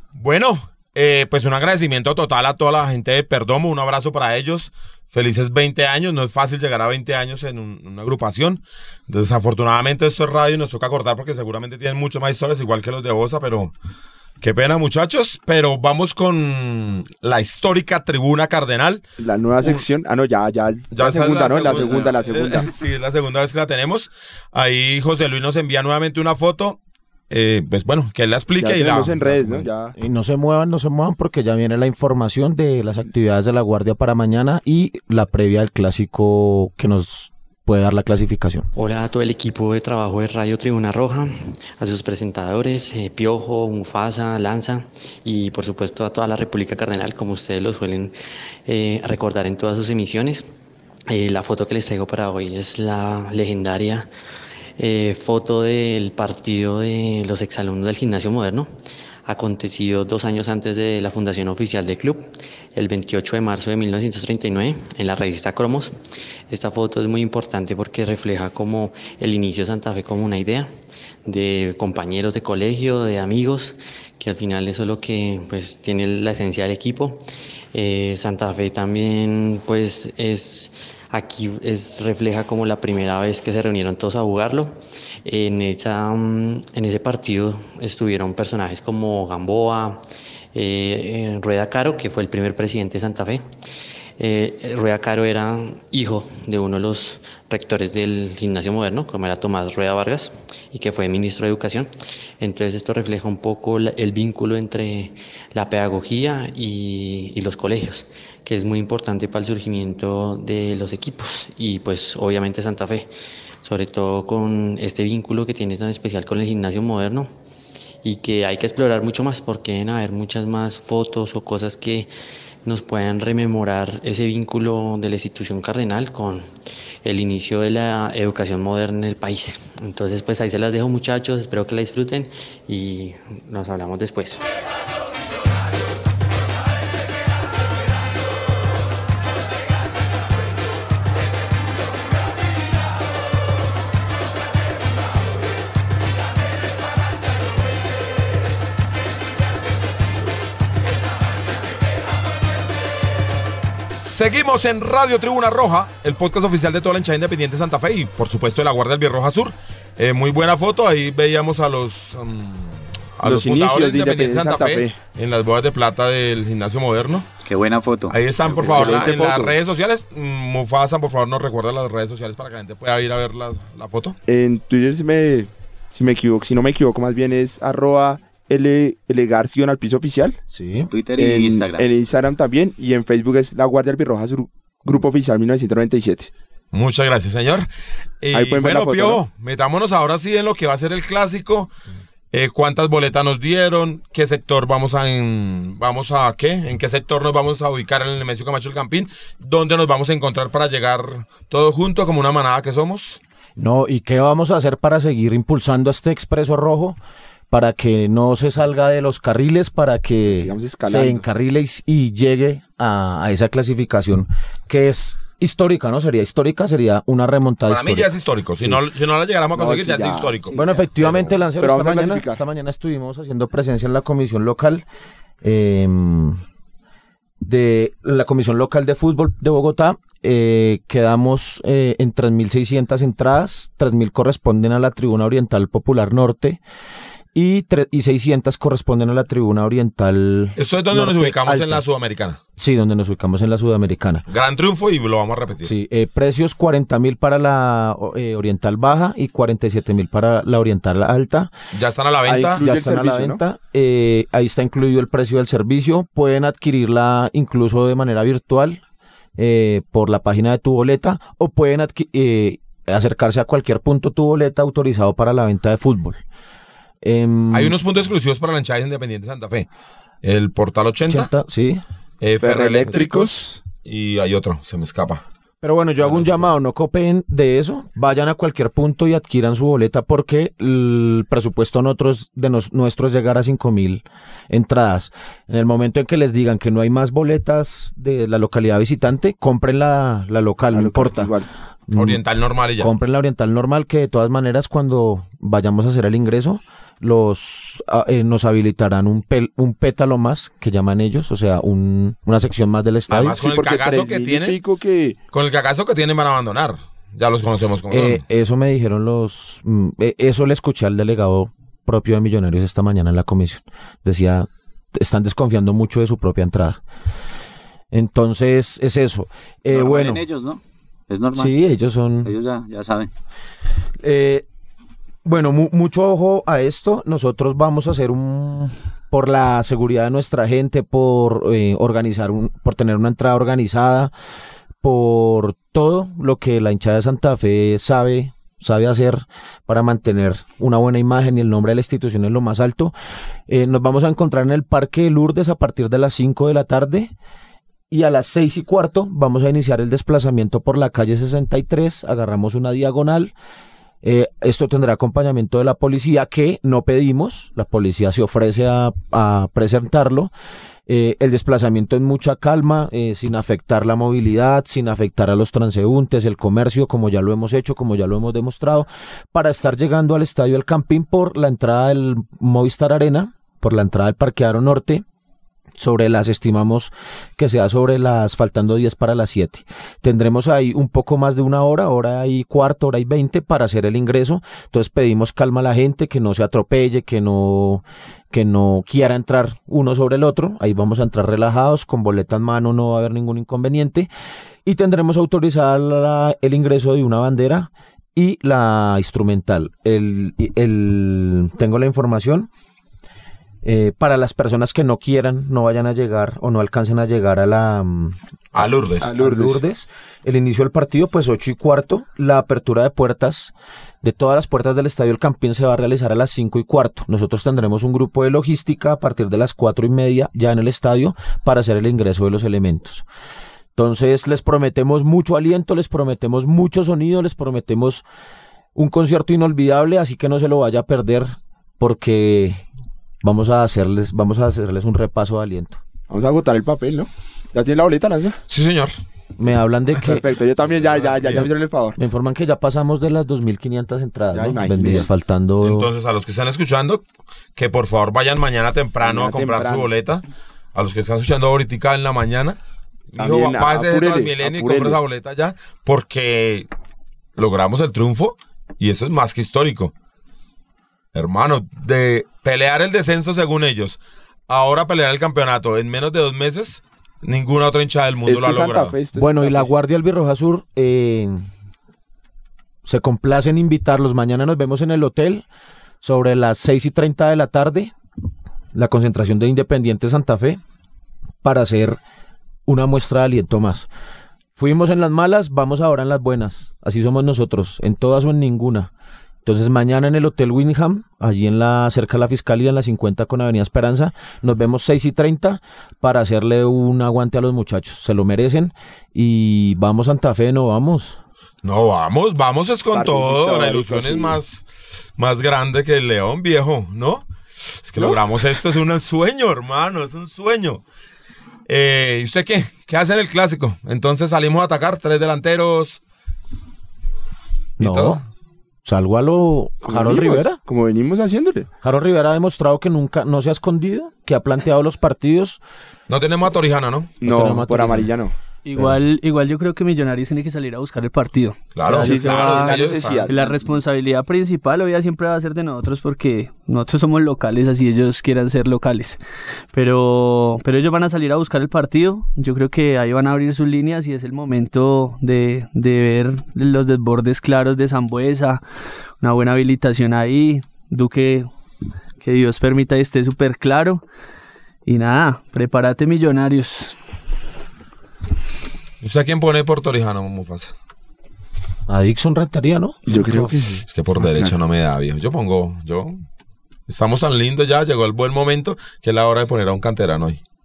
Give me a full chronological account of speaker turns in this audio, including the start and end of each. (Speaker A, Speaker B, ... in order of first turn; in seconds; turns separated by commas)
Speaker A: 0.1-13.7, Speaker A: 14.4-19.0, Speaker B: 19.2-22.7, Speaker A: 20.9-26.8, Speaker A: 27.3-29.7, Speaker B: 28.6-29.9, Speaker C: 30.0-38.7, Speaker D: 38.8-48.1, Speaker D: 48.7-50.5, Speaker D: 51.1-54.1, Speaker D: 54.8-58.7, Speaker D: 59.3-66.0, Speaker D: 66.5-70.7, Speaker D: 71.3-77.2, Speaker D: 77.7-90.0, Speaker D: 90.5-93.4, Speaker D: 94.2-113.1, Speaker D: 113.6-117.3, Speaker D: 118.0-122.1, Speaker D: 122.6-126.5, Speaker D: 127.0-134.4, Speaker A: 154.0-167.3, Speaker B: 163.2-165.0, Speaker E: 167.4-169.2, Speaker A: 168.1-174.2, Speaker B: 168.6-169.6, Speaker B: 174.3-180.4, Speaker C: 180.5-180.9, Speaker E: 180.9-181.8, Speaker B: 181.2-186.3, Speaker A: 186.7-187.7, Speaker A: 188.2-191.7, Speaker B: 188.3-189.2, Speaker A: 192.3-203.2, Speaker C: 203.6-207.0, Speaker C: 207.5-218.1, Speaker B: 210.3-211.2, Speaker A: 217.7-220.6, Speaker B: 219.6-222.4, Speaker C: 220.6-224.8, Speaker C: 225.4-226.4, Speaker C: 227.4-236.6, Speaker C: 237.3-241.8, Speaker A: 240.6-242.4, Speaker C: 242.6-244.2, Speaker A: 244.3-245.7, Speaker C: 245.6-251.5, Speaker A: 251.7-252.6, Speaker B: 252.2-253.4, Speaker C: 252.6-258.8, Speaker C: 259.4-266.2, Speaker C: 267.0-267.8, Speaker A: 267.5-269.7, Speaker A: 270.2-271.3, Speaker C: 271.1-271.8, Speaker A: 272.2-273.3, Speaker B: 272.4-273.6, Speaker A: 273.8-275.2, Speaker C: 275.6-291.3, Speaker B: 290.7-291.5, Speaker C: 291.9-292.2, Speaker A: 291.9-292.9, Speaker C: 292.8-303.4, Speaker A: 303.1-304.6, Speaker B: 303.3-305.2, Speaker A: 305.3-308.2, Speaker C: 307.9-316.8, Speaker C: 317.9-320.2, Speaker E: 319.7-321.6, Speaker C: 321.3-322.3, Speaker E: 322.2-323.1, Speaker C: 324.0-324.4, Speaker C: 325.2-334.1, Speaker C: 334.8-342.9, Speaker C: 343.5-347.1, Speaker C: 347.9-353.3, Speaker C: 354.0-360.3, Speaker C: 360.9-375.0, Speaker C: 375.8-394.1, Speaker C: 394.6-402.5, Speaker C: 403.6-408.2, Speaker A: 408.5-409.1, Speaker B: 409.0-409.6, Speaker C: 409.0-423.1, Speaker C: 423.7-428.1, Speaker C: 428.7-432.6, Speaker C: 433.2-435.8, Speaker B: 436.1-438.4, Speaker A: 438.5-438.9, Speaker C: 439.4-440.2, Speaker B: 440.0-441.9, Speaker A: 440.7-441.5, Speaker C: 442.0-445.9, Speaker B: 444.3-445.1, Speaker A: 445.6-447.0, Speaker A: 447.6-450.2, Speaker B: 449.0-449.9, Speaker A: 450.7-452.6, Speaker A: 453.1-456.7, Speaker B: 453.2-455.0, Speaker A: 457.4-459.9, Speaker A: 461.1-464.0, Speaker A: 464.5-469.0, Speaker B: 468.3-469.7, Speaker C: 469.1-471.5, Speaker C: 472.8-475.4, Speaker C: 476.0-477.9, Speaker C: 478.7-480.6, Speaker C: 481.4-482.0, Speaker C: 482.7-483.9, Speaker C: 484.6-488.9, Speaker C: 489.4-501.2, Speaker A: 501.6-504.7, Speaker B: 502.9-504.4, Speaker A: 505.2-510.8, Speaker A: 511.7-516.0, Speaker A: 517.8-518.2, Speaker C: 517.8-518.2, Speaker C: 518.8-520.6, Speaker B: 519.8-521.7, Speaker C: 521.8-525.6, Speaker A: 526.1-527.2, Speaker B: 527.2-528.3, Speaker C: 527.2-528.1, Speaker F: 528.6-539.2, Speaker A: 531.7-533.3, Speaker B: 531.8-533.5, Speaker F: 539.7-548.6, Speaker F: 549.2-551.5, Speaker F: 552.2-554.0, Speaker F: 554.9-557.0, Speaker A: 559.0-560.7, Speaker C: 561.9-563.6, Speaker B: 563.1-564.5, Speaker A: 563.9-566.2, Speaker A: 566.9-570.4